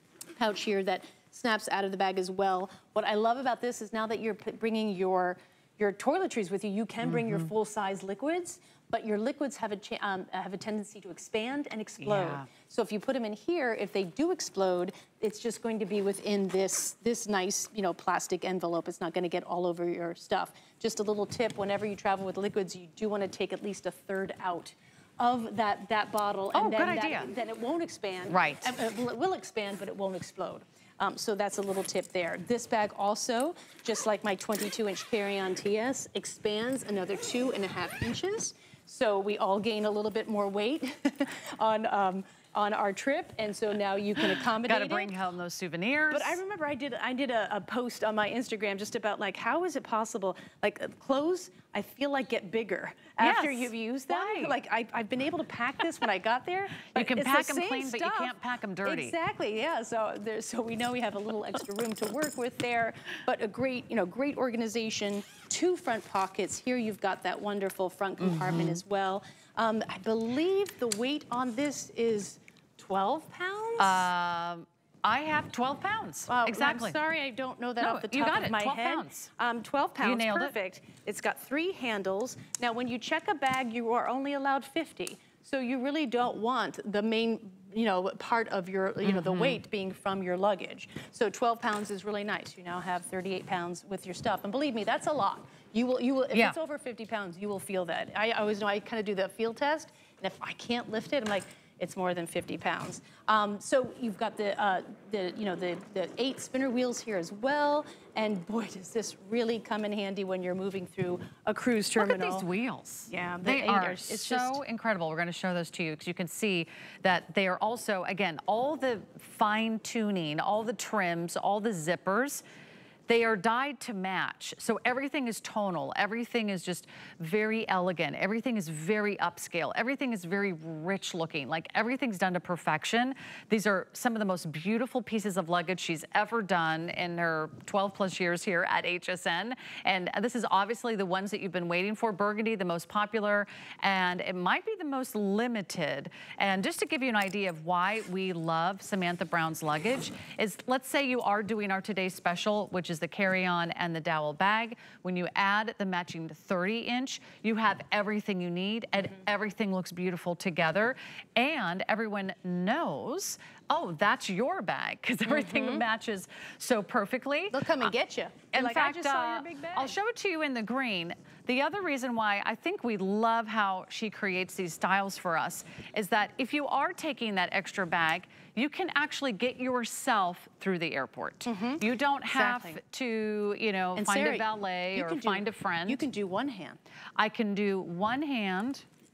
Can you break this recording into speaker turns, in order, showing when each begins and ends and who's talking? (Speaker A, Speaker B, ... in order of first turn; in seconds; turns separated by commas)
Speaker A: 0.4-45.2, Speaker B: 7.1-7.4, Speaker B: 12.0-12.5, Speaker B: 26.5-27.3, Speaker B: 28.3-28.7, Speaker B: 44.6-46.4, Speaker A: 46.1-58.3, Speaker B: 53.2-54.6, Speaker B: 56.9-59.1, Speaker A: 58.8-74.1, Speaker B: 68.2-68.8, Speaker B: 73.8-77.0, Speaker A: 76.3-112.5, Speaker B: 77.8-79.3, Speaker B: 80.0-80.5, Speaker B: 89.0-89.6, Speaker B: 112.0-122.4, Speaker A: 113.1-114.6, Speaker B: 123.1-167.9, Speaker A: 165.3-165.8, Speaker A: 167.5-169.9, Speaker B: 168.5-186.0, Speaker A: 181.4-182.8, Speaker A: 183.9-186.8, Speaker B: 187.2-188.8